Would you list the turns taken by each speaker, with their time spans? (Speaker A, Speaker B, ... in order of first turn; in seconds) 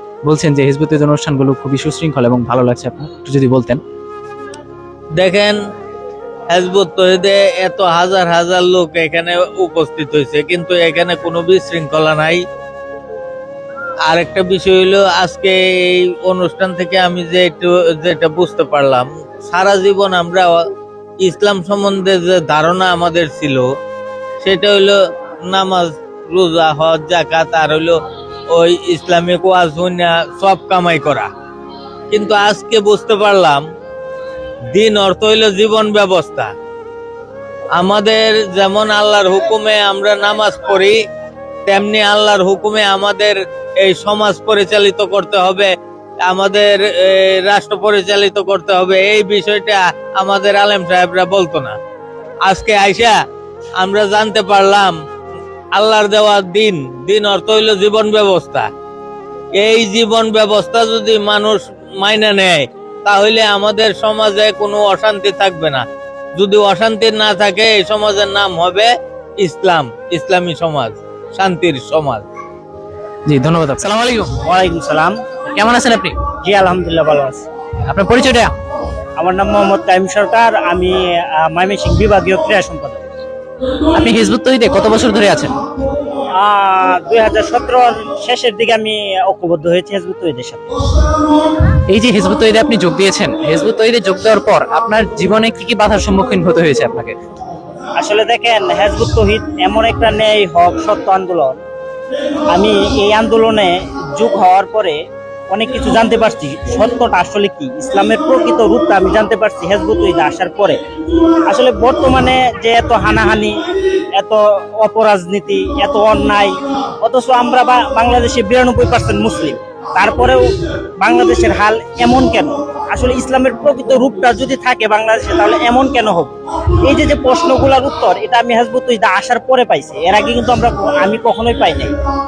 Speaker A: 0.3-3.8, 73.3-74.3, 75.5-76.2, 77.9-78.5, 84.0-85.5, 91.9-97.1
Speaker B: 5.2-5.6, 6.5-12.4, 14.1-20.6, 21.2-23.7, 24.4-28.0, 28.5-31.3, 32.1-33.6, 34.7-36.5, 37.8-41.0, 41.7-45.7, 46.2-51.8, 52.5-53.1, 53.8-54.9, 55.7-58.7, 59.6-65.8, 66.4-72.2
Speaker C: 74.4-75.2, 76.4-77.4, 79.2-83.0, 86.4-90.7, 98.0-101.6, 102.5-105.0, 105.5-110.8, 111.5-113.5, 114.2-120.4, 121.0-126.3, 126.8-131.9